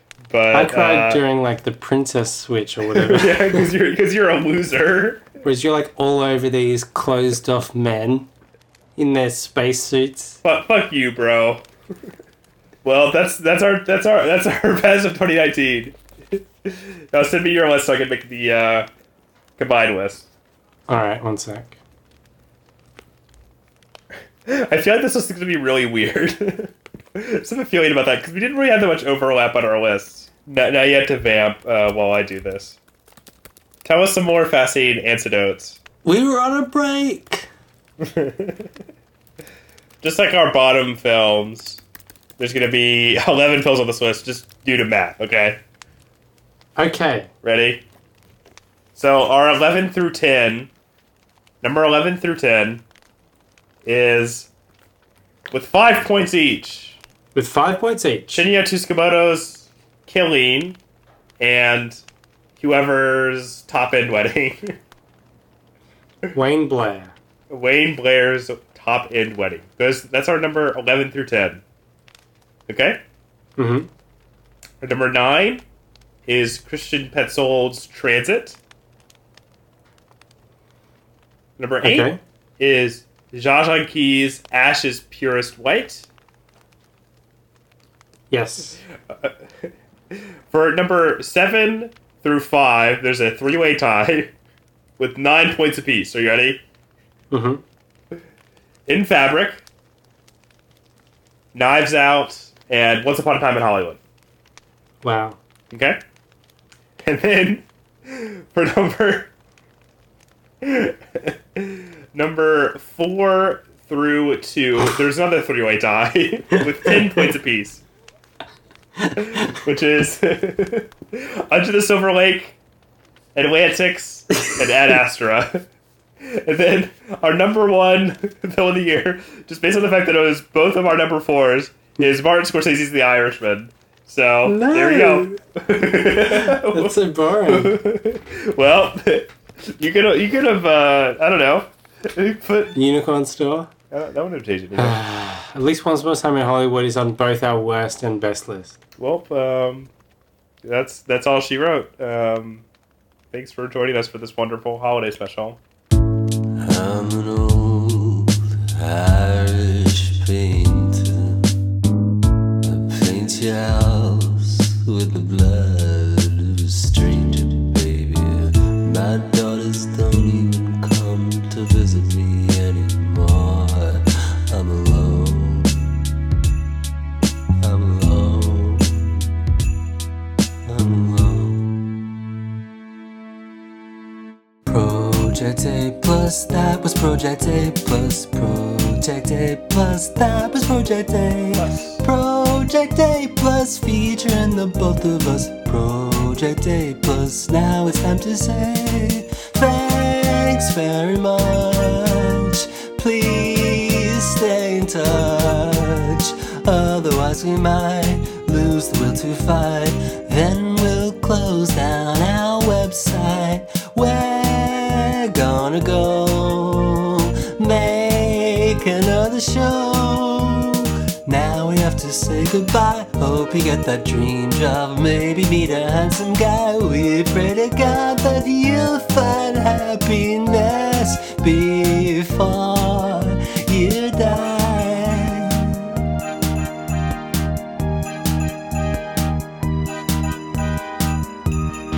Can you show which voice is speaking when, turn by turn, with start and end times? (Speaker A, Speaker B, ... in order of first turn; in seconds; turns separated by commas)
Speaker A: 0.3-1.2, Speaker B: 0.5-3.7, Speaker A: 2.9-5.2, Speaker B: 5.4-8.3, Speaker B: 8.9-10.4, Speaker A: 10.4-11.6, Speaker A: 12.8-18.9, Speaker A: 19.6-20.3, Speaker B: 20.9-21.8, Speaker A: 24.4-32.8, Speaker A: 33.8-35.8, Speaker B: 36.0-37.5, Speaker A: 38.0-38.6, Speaker A: 40.0-41.8, Speaker A: 42.4-45.6, Speaker B: 46.8-47.3, Speaker A: 47.4-47.8, Speaker A: 48.9-50.7, Speaker A: 51.6-52.8, Speaker A: 53.8-54.5, Speaker A: 55.5-57.0, Speaker B: 57.3-58.5, Speaker A: 58.3-60.8, Speaker A: 61.4-62.0, Speaker A: 62.6-64.8, Speaker B: 66.3-67.1, Speaker A: 67.5-71.6, Speaker A: 72.7-73.0, Speaker B: 73.6-73.9, Speaker A: 74.8-75.6, Speaker A: 76.3-78.6, Speaker A: 81.6-86.1, Speaker B: 81.8-82.2, Speaker B: 88.3-88.8, Speaker A: 90.1-94.3, Speaker A: 95.0-96.6, Speaker B: 97.3-97.6, Speaker A: 98.9-99.6, Speaker A: 101.5-104.0, Speaker B: 105.0-105.4, Speaker A: 105.7-106.0, Speaker A: 107.0-109.3, Speaker A: 110.6-117.8, Speaker B: 119.0-119.4, Speaker A: 119.1-122.6, Speaker A: 123.3-125.7, Speaker A: 126.2-142.8, Speaker B: 134.4-135.3, Speaker B: 136.1-137.8, Speaker B: 142.7-143.7, Speaker A: 143.9-145.0, Speaker B: 144.8-148.8, Speaker A: 149.0-149.9, Speaker A: 150.6-152.6, Speaker A: 153.3-155.6, Speaker C: 156.6-161.5, Speaker C: 162.6-175.8, Speaker C: 177.6-179.2, Speaker C: 180.7-181.7, Speaker C: 184.7-235.9, Speaker A: 191.6-192.0